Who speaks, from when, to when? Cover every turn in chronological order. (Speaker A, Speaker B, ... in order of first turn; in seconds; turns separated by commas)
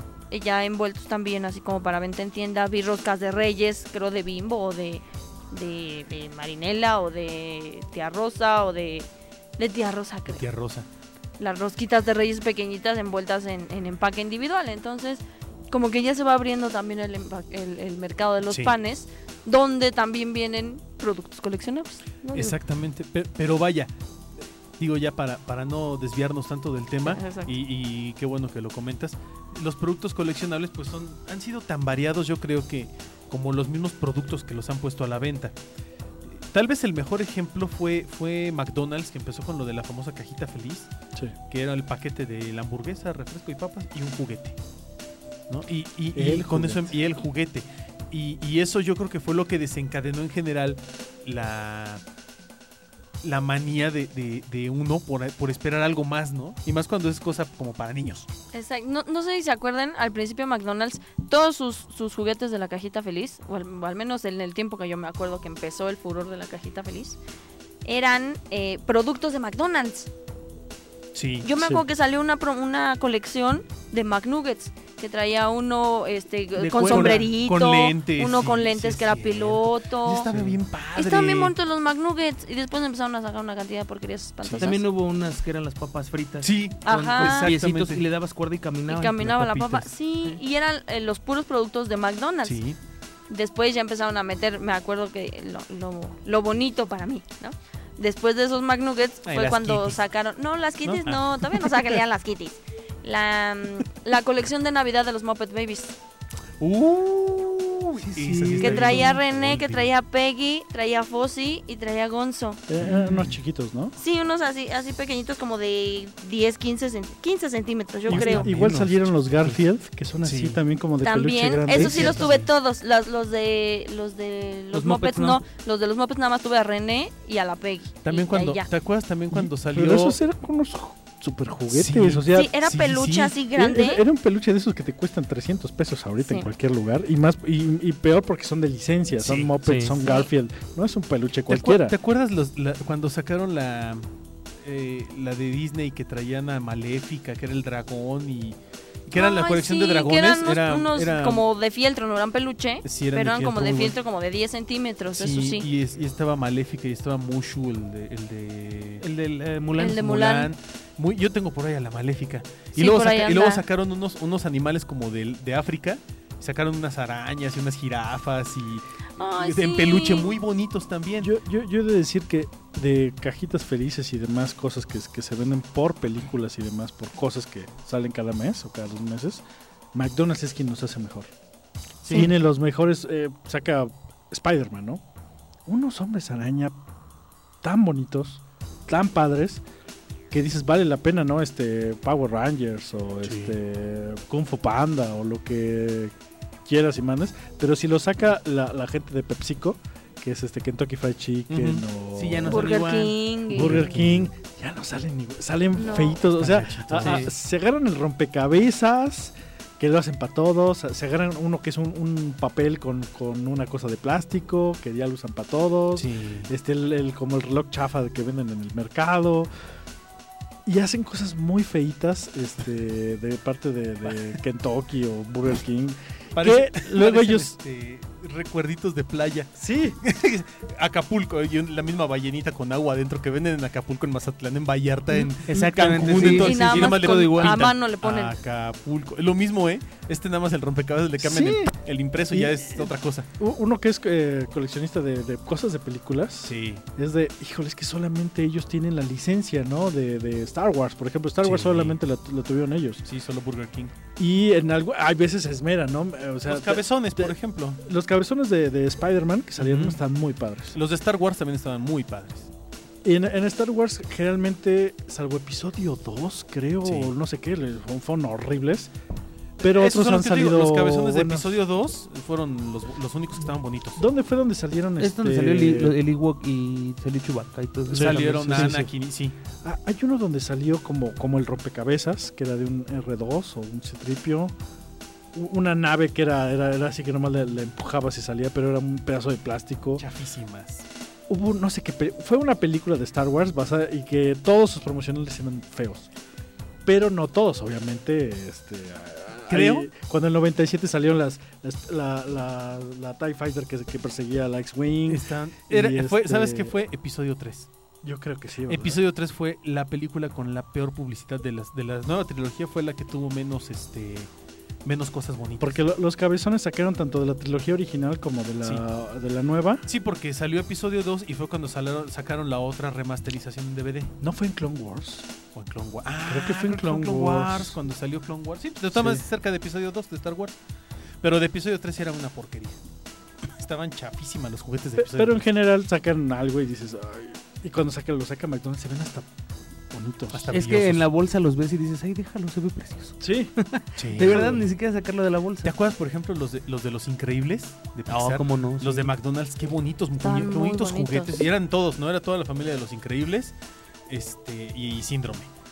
Speaker A: 0.3-10.4, Speaker B: 10.3-10.9, Speaker A: 11.4-22.6, Speaker B: 18.5-18.7, Speaker B: 22.3-35.5, Speaker A: 27.0-27.6, Speaker B: 36.3-40.9, Speaker B: 41.5-44.6, Speaker B: 45.5-52.0, Speaker C: 46.1-47.0, Speaker B: 53.2-58.3, Speaker A: 58.5-67.2, Speaker A: 67.8-70.1, Speaker B: 71.1-71.8, Speaker A: 71.4-80.3, Speaker D: 76.5-77.3, Speaker B: 76.8-81.5, Speaker A: 81.0-84.8, Speaker B: 84.4-84.7, Speaker D: 84.6-89.4, Speaker B: 86.4-88.0, Speaker A: 86.8-87.5, Speaker A: 88.9-92.6, Speaker B: 89.3-89.9, Speaker B: 92.4-92.8, Speaker A: 93.3-105.9, Speaker B: 99.2-100.0, Speaker B: 100.9-101.9, Speaker B: 106.6-109.9, Speaker D: 108.0-109.2, Speaker A: 108.6-112.6, Speaker C: 112.7-113.9, Speaker B: 112.8-113.3, Speaker A: 114.0-118.5, Speaker B: 118.1-119.6, Speaker C: 118.1-122.3, Speaker B: 120.2-120.6, Speaker A: 121.0-128.7, Speaker B: 121.7-122.5, Speaker D: 124.7-125.4, Speaker B: 128.0-130.2, Speaker C: 129.3-132.5, Speaker B: 131.7-133.4, Speaker A: 132.3-134.0, Speaker C: 133.5-142.0, Speaker A: 136.2-136.5, Speaker B: 139.2-139.5, Speaker D: 139.6-140.0, Speaker A: 140.0-140.3, Speaker B: 141.5-144.1, Speaker B: 144.6-151.4, Speaker A: 149.1-155.7, Speaker B: 152.8-153.9, Speaker B: 155.1-159.0, Speaker D: 159.0-160.2, Speaker A: 159.8-160.5, Speaker B: 159.9-171.3, Speaker A: 162.8-163.6, Speaker A: 169.2-170.3, Speaker C: 171.2-179.4, Speaker C: 179.9-181.3, Speaker C: 182.0-185.0, Speaker A: 182.1-182.3, Speaker C: 185.7-186.8, Speaker C: 187.6-189.6, Speaker C: 190.3-196.1, Speaker B: 193.2-193.6, Speaker C: 196.7-202.7, Speaker B: 201.5-201.8, Speaker D: 202.1-203.2, Speaker A: 202.5-203.8, Speaker C: 203.5-219.5, Speaker B: 203.5-204.3, Speaker A: 205.7-206.2, Speaker B: 206.3-207.3, Speaker D: 207.0-207.3, Speaker B: 215.9-216.5, Speaker C: 220.7-227.5, Speaker B: 226.3-243.3, Speaker C: 229.6-230.0, Speaker D: 235.5-237.7, Speaker C: 236.0-236.4, Speaker A: 236.2-238.3, Speaker C: 241.2-241.7, Speaker C: 242.3-253.0, Speaker B: 246.4-246.8, Speaker B: 251.4-252.0, Speaker B: 253.0-253.9, Speaker C: 254.2-260.8, Speaker B: 256.4-257.8, Speaker B: 259.6-260.0, Speaker B: 260.7-262.5, Speaker C: 263.0-268.9, Speaker B: 266.8-267.1, Speaker B: 269.6-274.0, Speaker C: 269.6-271.6, Speaker C: 274.0-275.9, Speaker D: 275.0-278.8, Speaker B: 277.9-279.4, Speaker C: 277.9-278.9, Speaker C: 279.6-284.5, Speaker C: 285.3-290.0, Speaker B: 290.0-290.9, Speaker C: 291.3-296.1, Speaker C: 296.9-306.7, Speaker B: 299.5-299.9, Speaker B: 305.1-307.7, Speaker C: 308.0-309.0, Speaker B: 308.7-314.3, Speaker B: 314.8-315.8, Speaker C: 315.6-319.9, Speaker B: 319.9-324.1, Speaker C: 324.2-325.3, Speaker B: 325.5-330.6, Speaker C: 326.2-327.8, Speaker C: 328.9-329.2, Speaker B: 331.2-332.8, Speaker B: 333.4-335.4, Speaker C: 335.0-339.3, Speaker C: 339.9-340.5, Speaker B: 340.3-341.1, Speaker D: 340.5-345.7, Speaker C: 343.2-343.5, Speaker B: 343.9-344.6, Speaker C: 344.2-344.6, Speaker B: 345.6-353.5, Speaker D: 348.1-349.1, Speaker A: 350.2-351.5, Speaker B: 354.1-355.5